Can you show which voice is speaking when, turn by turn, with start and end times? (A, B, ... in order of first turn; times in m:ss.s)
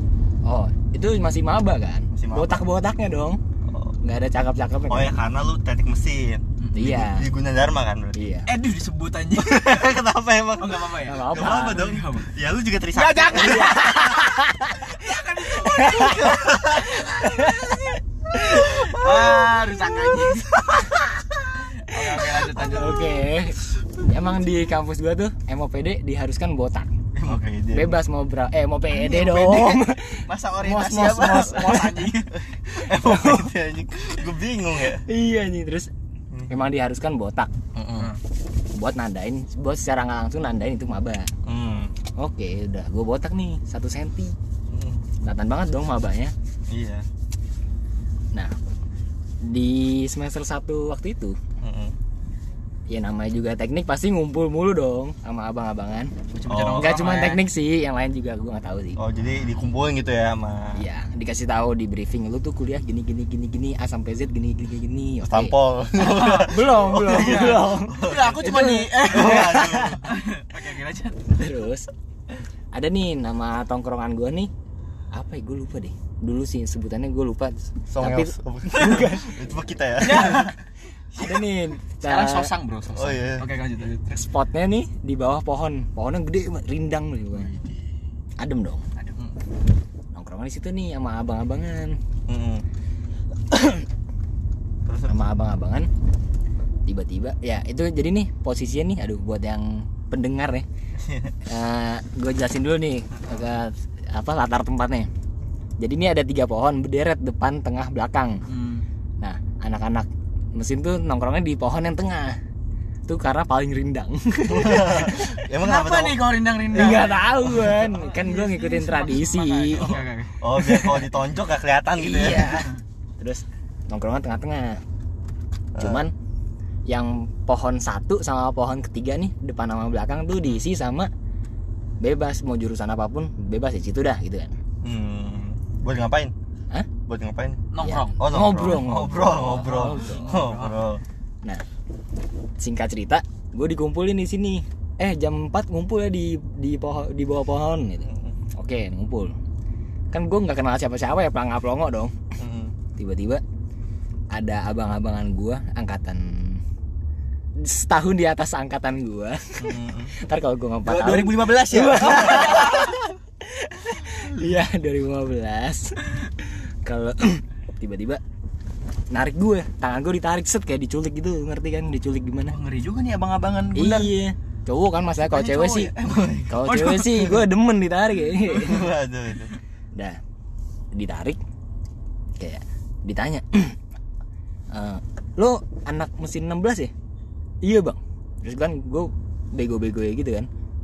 0:00.4-0:03.4 A
0:02.1-0:02.6 B
0:03.7-0:04.0 B
0:04.0-0:05.2 A
0:04.9-0:08.3 B
0:06.6-0:07.0 C
0:06.7-0:07.3 A
0:08.2-0:08.5 A
0:08.5-0:09.9 C
0:09.4-0:14.0 B
0:10.6-0:12.3 C
0:11.1-0:11.9 A
0:12.9-0:17.2 C
0:13.4-0:18.7 A
0:16.2-0:17.0 B
0:18.5-0:20.8 B
0:18.6-0:20.7 C
0:21.8-0:23.2 C
0:22.3-0:26.9 A
0:27.2-0:28.0 B
0:27.2-0:27.5 C
0:27.7-0:32.1 A
0:28.9-0:32.4 C
0:32.3-0:35.0 B
0:32.9-0:33.5 A
0:35.1-0:35.9 A
0:36.5-0:37.5 A
0:37.8-0:38.1 B
0:38.7-0:41.3 A
0:41.4-0:41.9 B
0:42.2-0:44.4 A
0:44.7-0:45.0 B
0:45.2-0:46.3 A
0:46.7-0:47.0 B
0:49.4-0:51.4 A
0:51.6-0:51.9 B
0:52.9-0:56.1 A
0:56.3-0:57.4 C
0:56.5-0:57.0 B
0:56.8-0:59.0 A
0:59.0-1:00.8 B
1:00.8-1:10.0 A
1:05.2-1:08.4 B
1:07.0-1:11.2 C
1:09.0-1:10.1 B
1:11.3-1:11.9 A
1:12.7-1:14.5 A
1:15.1-1:19.4 A
1:17.9-1:20.5 B
1:20.0-1:20.6 C
1:21.1-1:21.4 C
1:21.2-1:22.5 A
1:22.0-1:24.2 C
1:22.9-1:23.5 B
1:24.1-1:27.5 A
1:27.4-1:27.8 C
1:28.4-1:28.8 A
1:29.0-1:29.2 C
1:30.1-1:32.0 A
1:32.3-1:32.6 B
1:33.5-1:33.8 A
1:34.9-1:35.2 B
1:35.1-1:35.9 A
1:36.9-1:40.7 A
1:41.0-1:41.3 B
1:41.5-1:45.1 A
1:45.8-1:48.4 A
1:48.5-1:48.9 C
1:49.2-1:52.4 A
1:53.1-1:55.4 A
1:54.5-1:56.2 B
1:55.6-2:00.4 C
1:56.7-2:00.0 A
1:56.8-1:57.0 B
1:59.8-2:02.7 B
2:00.6-2:01.0 A
2:02.0-2:04.8 A
2:02.5-2:02.7 C
2:05.8-2:06.1 B
2:05.8-2:06.1 A
2:06.9-2:11.1 A
2:12.0-2:14.5 A
2:14.8-2:16.3 B
2:17.1-2:17.6 B
2:17.7-2:18.2 C
2:17.8-2:20.3 A
2:18.2-2:21.0 B
2:19.4-2:20.8 C
2:22.6-2:29.4 A
2:28.0-2:28.4 B
2:30.1-2:32.2 A
2:32.4-2:32.7 B
2:33.0-2:33.4 A
2:34.3-2:36.6 A
2:37.6-2:48.2 A
2:39.6-2:40.1 B
2:40.9-2:43.0 C
2:42.0-2:42.7 B
2:49.1-2:52.6 A
2:52.5-2:54.1 C
2:53.8-2:55.9 A
2:55.3-2:57.4 C
2:56.0-2:56.6 B
2:56.5-2:58.9 A
2:58.5-2:59.5 B
3:00.9-3:01.4 A
3:02.4-3:03.8 A
3:04.7-3:06.9 A
3:07.6-3:10.5 A